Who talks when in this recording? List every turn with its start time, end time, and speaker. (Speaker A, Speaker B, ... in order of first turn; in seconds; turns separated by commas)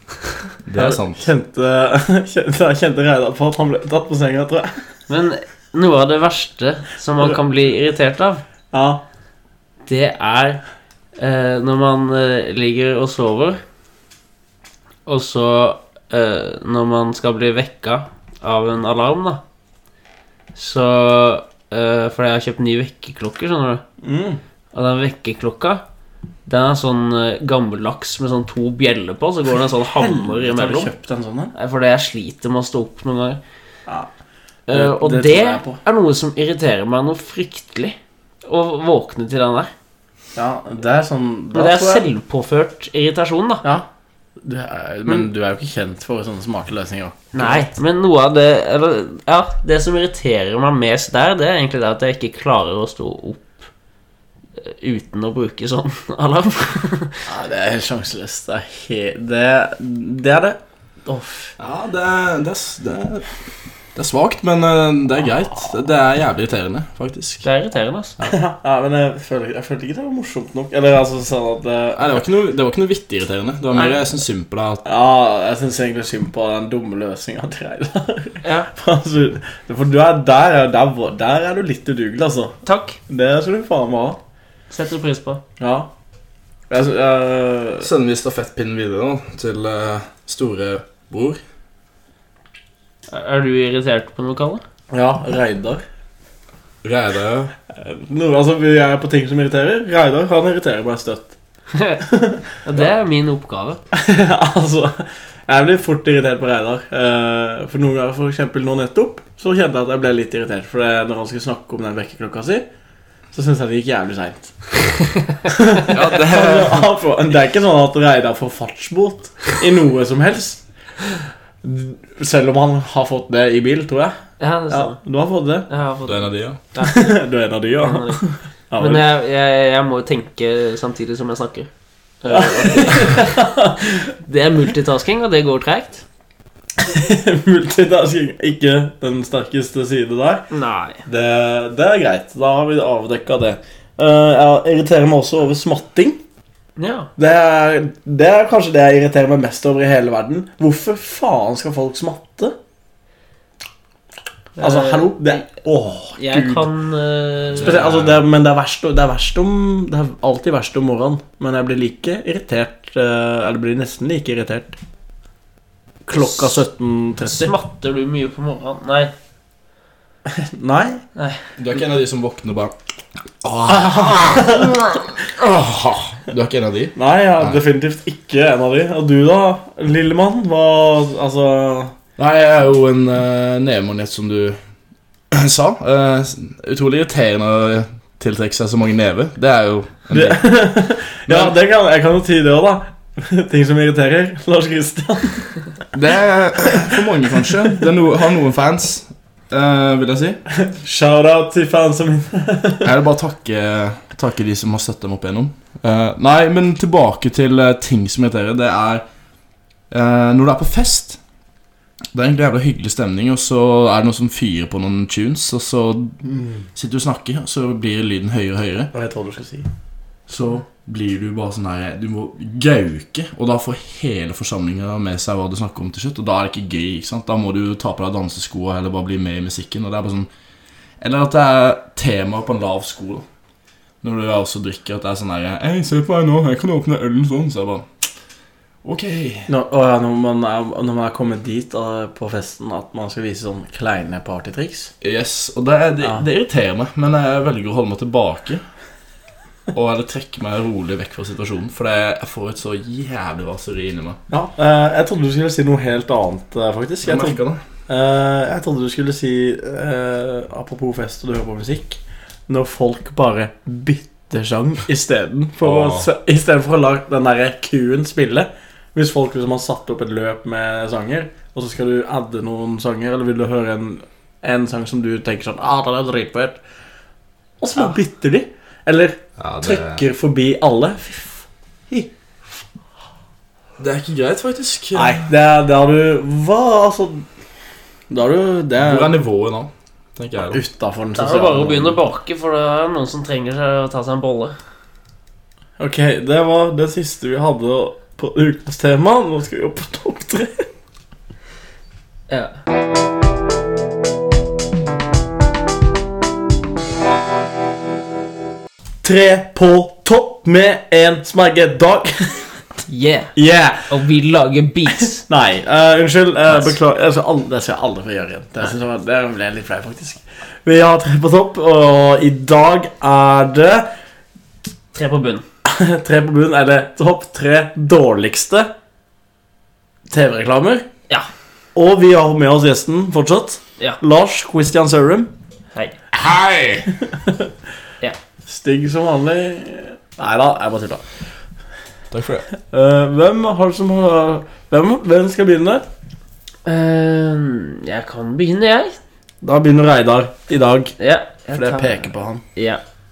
Speaker A: 0.6-1.2, Speaker B: 0.7-4.8, Speaker C: 5.1-8.4, Speaker B: 8.7-9.0, Speaker C: 9.8-10.6, Speaker C: 11.2-13.6, Speaker C: 15.1-19.4, Speaker C: 20.6-23.8, Speaker B: 24.0-24.4, Speaker C: 24.7-25.8, Speaker C: 26.4-30.9, Speaker B: 29.8-31.5, Speaker C: 31.5-33.4, Speaker C: 34.7-39.7, Speaker B: 34.7-35.8, Speaker B: 40.4-42.0, Speaker C: 41.5-43.6, Speaker B: 44.4-47.7, Speaker C: 47.3-53.7, Speaker C: 54.6-57.2, Speaker B: 57.3-61.5, Speaker A: 61.6-63.3, Speaker A: 63.9-67.4, Speaker C: 67.4-68.2, Speaker B: 68.2-72.1, Speaker A: 72.0-74.8, Speaker B: 74.8-82.5, Speaker C: 78.4-78.7, Speaker C: 82.6-83.0, Speaker B: 83.1-84.2, Speaker C: 84.7-85.4, Speaker B: 85.6-85.9, Speaker B: 86.7-87.9, Speaker A: 87.8-91.4, Speaker C: 93.1-94.6, Speaker B: 94.9-95.8, Speaker A: 96.8-97.5, Speaker B: 97.8-101.3, Speaker C: 101.7-102.0, Speaker B: 102.0-102.4, Speaker C: 102.6-103.8, Speaker B: 103.9-112.6, Speaker B: 113.3-114.7, Speaker B: 115.4-120.6, Speaker A: 115.8-116.9, Speaker B: 121.6-124.2, Speaker C: 124.4-125.0, Speaker B: 124.7-125.7, Speaker C: 125.7-127.1, Speaker A: 126.1-126.6, Speaker B: 126.8-129.1, Speaker C: 127.8-128.2, Speaker C: 128.8-131.7, Speaker C: 132.2-136.0, Speaker B: 132.3-134.0, Speaker B: 136.8-140.5, Speaker C: 140.5-141.0, Speaker B: 141.1-146.2, Speaker C: 146.8-147.1, Speaker B: 147.2-152.6, Speaker C: 154.6-155.1, Speaker B: 154.6-156.7, Speaker C: 156.2-157.8, Speaker A: 157.5-158.2, Speaker B: 157.6-164.8, Speaker B: 166.1-167.5, Speaker C: 166.2-166.5, Speaker C: 167.2-169.1, Speaker B: 170.3-171.0, Speaker A: 171.6-172.7, Speaker A: 173.4-177.6, Speaker B: 173.7-174.8, Speaker B: 176.9-181.9, Speaker A: 182.2-184.6, Speaker A: 185.3-190.4, Speaker B: 190.1-195.6, Speaker A: 191.3-191.5, Speaker A: 195.9-200.4, Speaker B: 200.6-202.9, Speaker A: 202.8-209.0, Speaker A: 209.9-211.2, Speaker A: 212.1-216.2, Speaker B: 216.2-216.6, Speaker A: 216.7-218.9, Speaker B: 218.9-219.7, Speaker A: 220.3-230.3, Speaker A: 231.0-233.2, Speaker A: 234.0-237.9, Speaker A: 238.8-239.5, Speaker B: 239.5-244.9, Speaker A: 245.0-248.6, Speaker A: 249.7-254.2, Speaker B: 254.3-276.6, Speaker A: 257.0-257.6, Speaker A: 265.6-266.1, Speaker B: 277.6-282.1, Speaker A: 279.4-280.0, Speaker A: 283.8-285.3, Speaker B: 284.9-287.2, Speaker B: 288.1-289.1, Speaker A: 288.8-290.6, Speaker B: 290.5-292.0, Speaker C: 291.1-294.5, Speaker B: 295.8-300.6, Speaker C: 302.3-302.5, Speaker B: 309.0-312.5, Speaker C: 312.9-313.3, Speaker B: 313.3-313.9, Speaker C: 313.9-315.2, Speaker B: 315.3-323.9, Speaker C: 316.5-316.7, Speaker C: 324.9-325.4, Speaker B: 325.6-328.7, Speaker B: 330.1-330.9, Speaker B: 331.7-335.3, Speaker A: 336.1-336.9, Speaker B: 337.1-337.5, Speaker B: 338.5-341.0, Speaker A: 342.1-342.4, Speaker B: 342.7-345.9, Speaker C: 346.6-349.0, Speaker B: 349.4-350.9, Speaker C: 351.0-352.8, Speaker B: 351.5-352.4